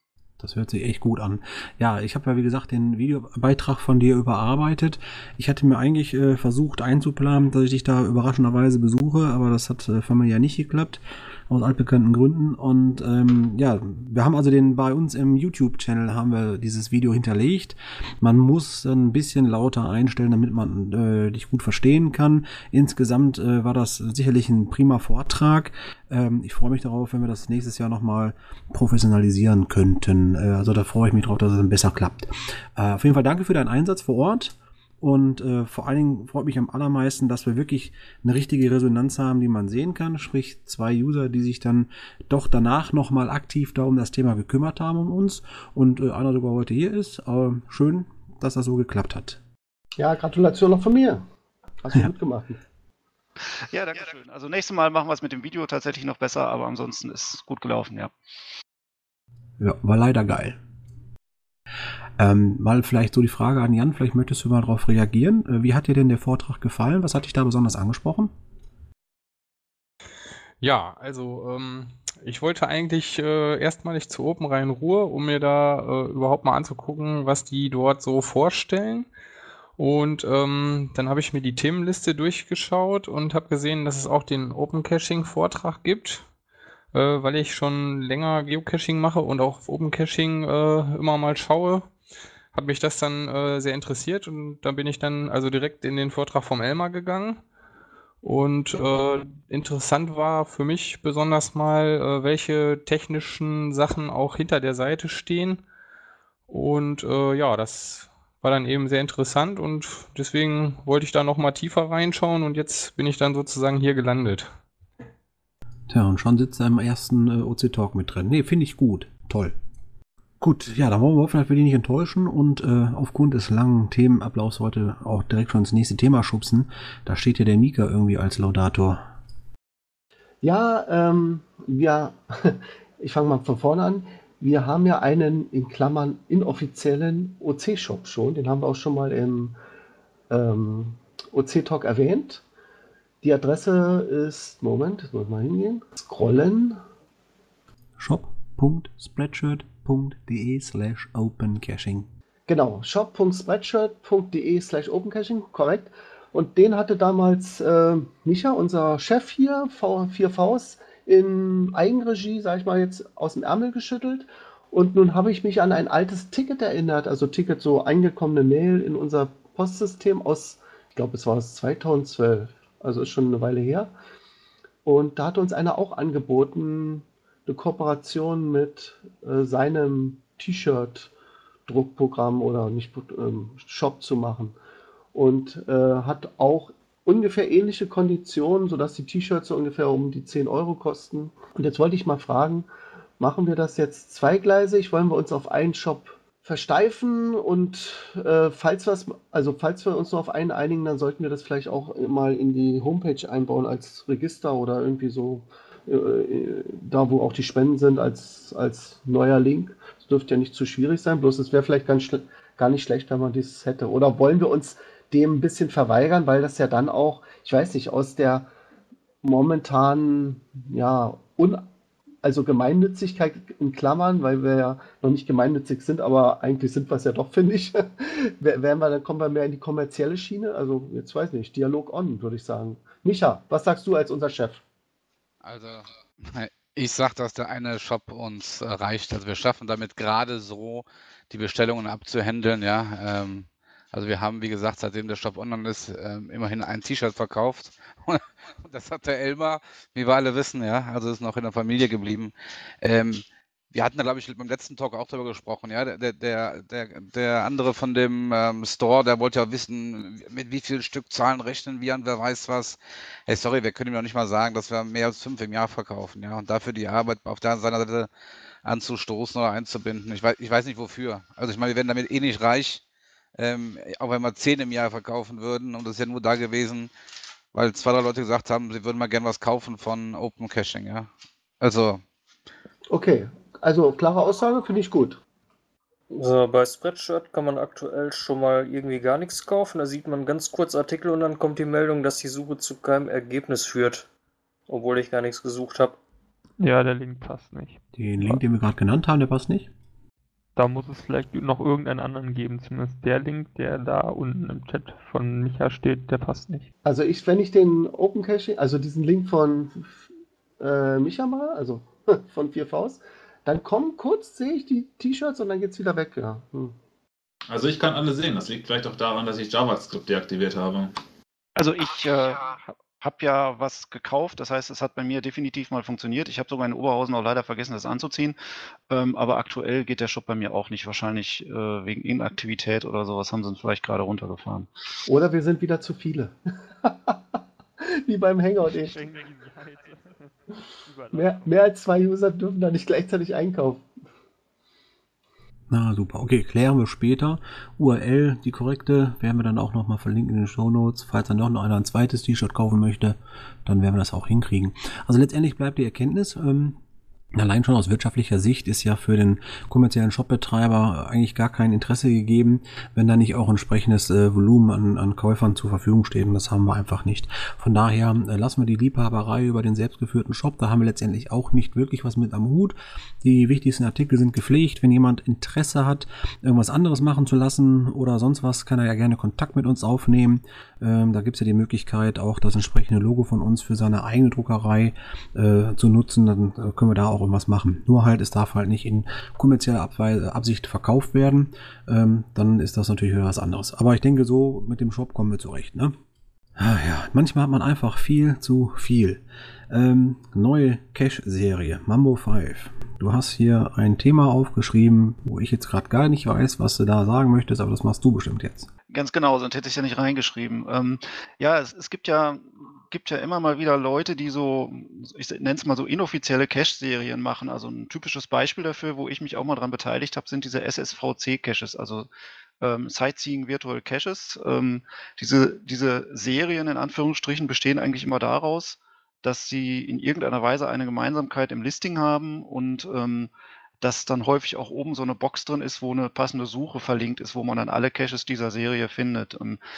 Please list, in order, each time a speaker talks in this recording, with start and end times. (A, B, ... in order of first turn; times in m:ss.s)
0:00.4-0:49.4 A
0:50.0-0:51.2 B
0:51.8-0:52.6 B
0:53.6-0:58.1 C
0:59.6-1:00.6 A
1:02.2-1:08.3 A
1:10.6-1:19.1 D
1:19.8-1:26.2 D
1:26.9-1:31.9 D
1:32.5-1:37.4 D
1:38.2-1:45.6 D
1:46.5-1:54.5 D
1:55.9-1:59.6 A
2:00.4-2:09.0 A
2:10.4-2:19.6 B
2:20.3-2:22.4 B
2:23.2-2:26.8 B
2:28.0-2:32.1 A
2:32.5-2:53.9 B
2:54.8-3:01.1 B
3:01.7-3:04.6 B
3:05.1-3:12.7 B
3:13.2-3:38.5 B
3:39.2-3:41.6 B
3:42.2-3:54.6 B
3:55.4-4:28.1 E
4:28.6-4:32.8 E
4:33.4-4:36.9 E
4:37.5-4:41.1 E
4:41.6-4:42.0 E
4:42.9-4:45.2 B
4:46.1-4:54.1 F
4:54.7-4:56.0 F
4:56.6-4:58.4 G
4:57.9-4:59.7 A
5:00.6-5:06.7 G
5:06.8-5:09.9 B
5:10.6-5:16.8 B
5:17.5-5:20.9 H
5:21.6-5:28.4 C
5:28.9-5:34.7 C
5:35.1-5:37.2 B
5:37.8-5:39.0 B
5:38.7-5:41.5 G
5:41.1-5:43.8 B
5:45.7-5:56.8 A
5:57.4-6:35.9 A
6:36.6-6:48.7 A
6:48.9-7:02.1 C
7:02.6-7:19.6 C